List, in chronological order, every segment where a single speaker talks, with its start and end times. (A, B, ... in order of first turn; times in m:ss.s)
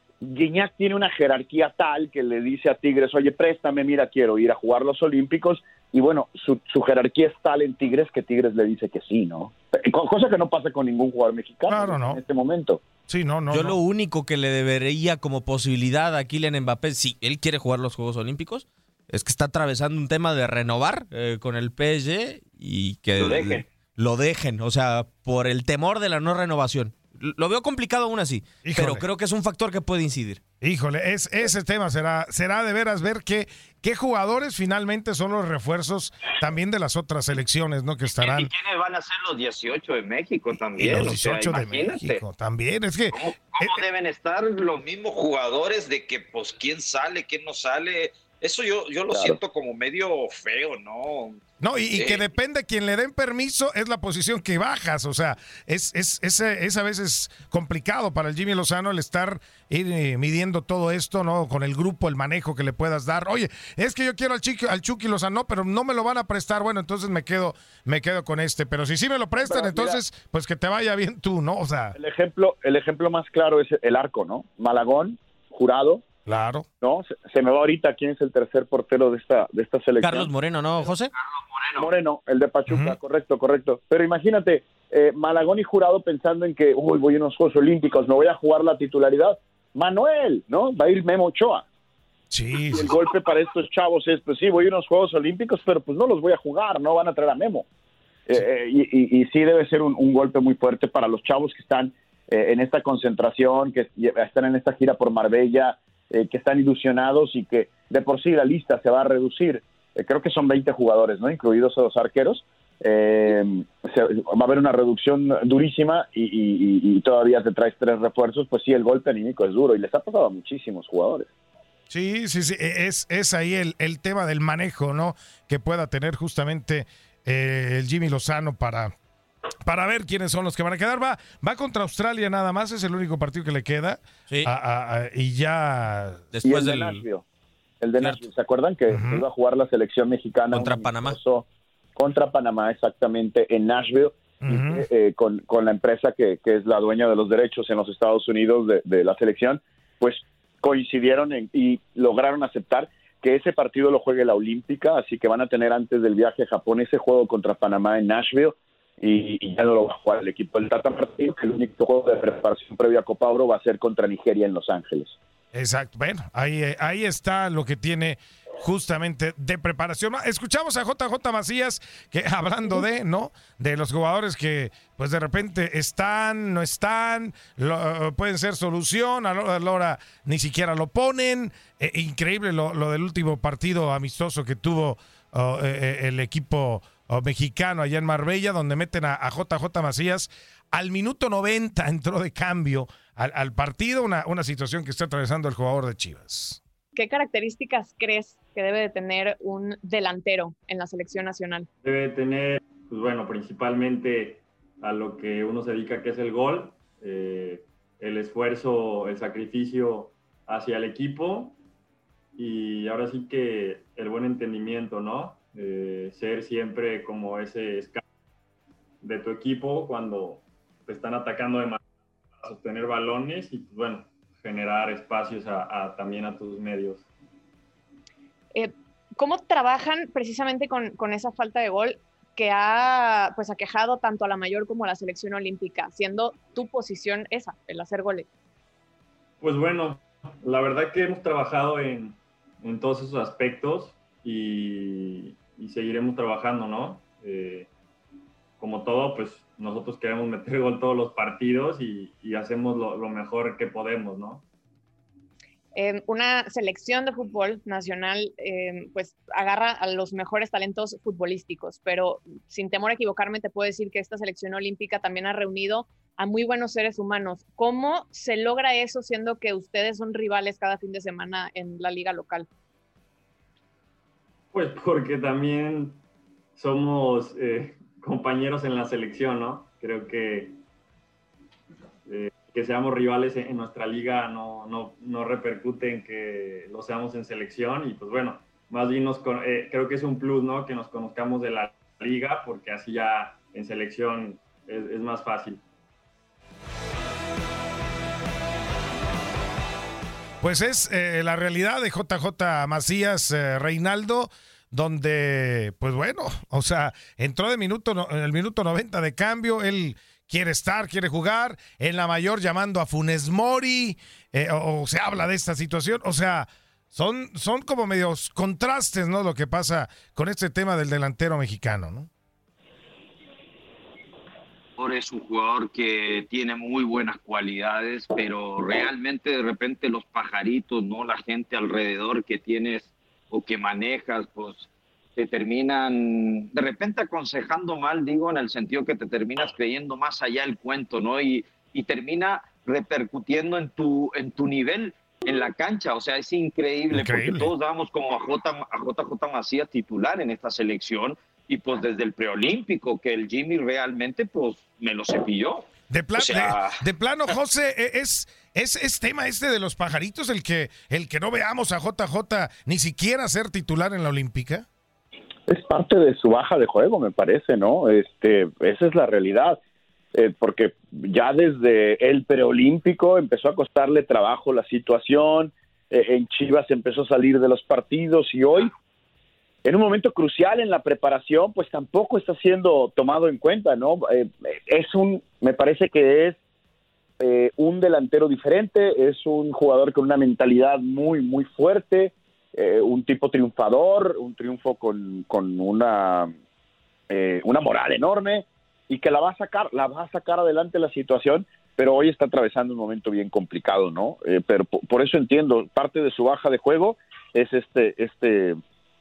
0:00.2-0:12.8 A
0:11.7-0:12.2 B
0:13.1-0:13.8 B
0:13.5-0:30.4 C
0:23.2-0:23.7 D
0:28.6-0:29.0 B
0:30.6-0:38.5 B
0:38.1-0:42.2 D
0:40.8-0:43.8 B
0:43.1-0:51.4 D
0:49.1-0:49.4 A
0:51.6-1:12.0 B
0:51.9-0:52.3 D
1:09.4-1:10.0 A
1:12.0-1:16.0 A
1:16.3-1:16.7 B
1:16.8-1:20.3 A
1:20.0-1:21.1 C
1:21.1-1:21.9 D
1:21.8-1:31.6 A
1:22.7-1:23.0 B
1:32.3-1:32.9 B
1:32.5-1:37.7 A
1:38.3-2:01.3 A
2:01.9-2:08.9 B
2:09.7-2:16.3 B
2:16.3-2:17.0 C
2:16.4-2:17.2 A
2:17.8-2:45.2 A
2:18.9-2:19.2 B
2:20.5-2:21.2 C
2:24.4-2:24.8 B
2:45.5-3:16.6 B
3:17.0-3:21.7 E
3:21.8-3:31.6 F
3:32.4-3:38.0 F
3:39.0-3:41.8 F
3:42.4-3:47.1 F
3:48.5-3:58.3 E
3:59.4-4:07.7 F
4:08.6-4:14.4 F
4:15.8-4:32.5 E
4:34.5-4:36.0 F
4:36.6-4:40.6 F
4:42.1-4:55.6 F
5:00.4-5:22.1 B
5:24.8-5:56.8 D
5:46.9-5:47.5 B
5:55.9-6:04.6 B
6:05.5-6:09.6 A
6:10.1-6:18.7 A
6:19.6-6:26.4 A
6:27.2-6:36.3 A
6:37.1-6:48.6 A